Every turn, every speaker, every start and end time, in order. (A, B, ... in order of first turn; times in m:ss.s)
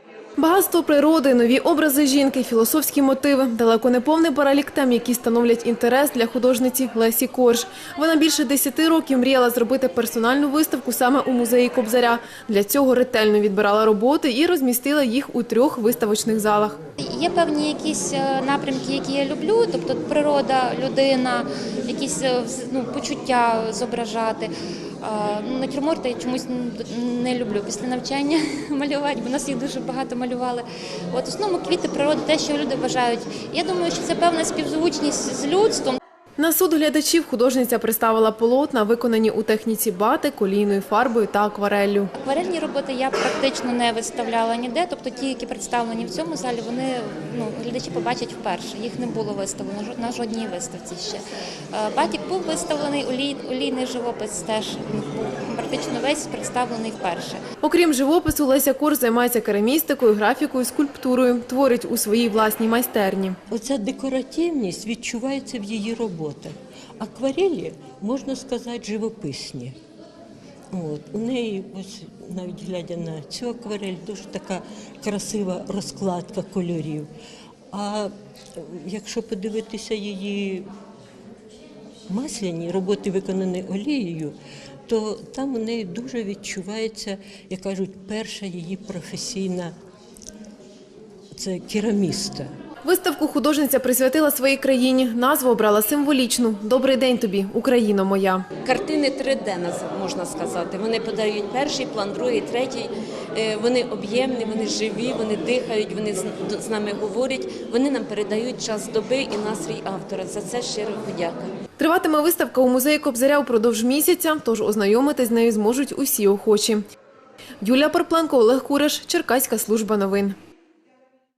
0:00.4-0:16.8 A
0:17.0-0:36.0 B
0:36.4-0:42.1 A
0:42.2-0:51.2 B
0:51.7-0:57.4 B
0:57.6-1:03.4 A
1:03.5-1:09.8 C
1:10.7-1:17.1 C
1:17.7-1:20.7 C
1:22.1-1:24.4 C
1:24.9-1:29.7 C
1:31.3-1:32.5 C
1:32.8-1:38.4 A
1:38.6-1:51.5 D
1:51.8-1:56.8 A
1:57.6-2:00.4 A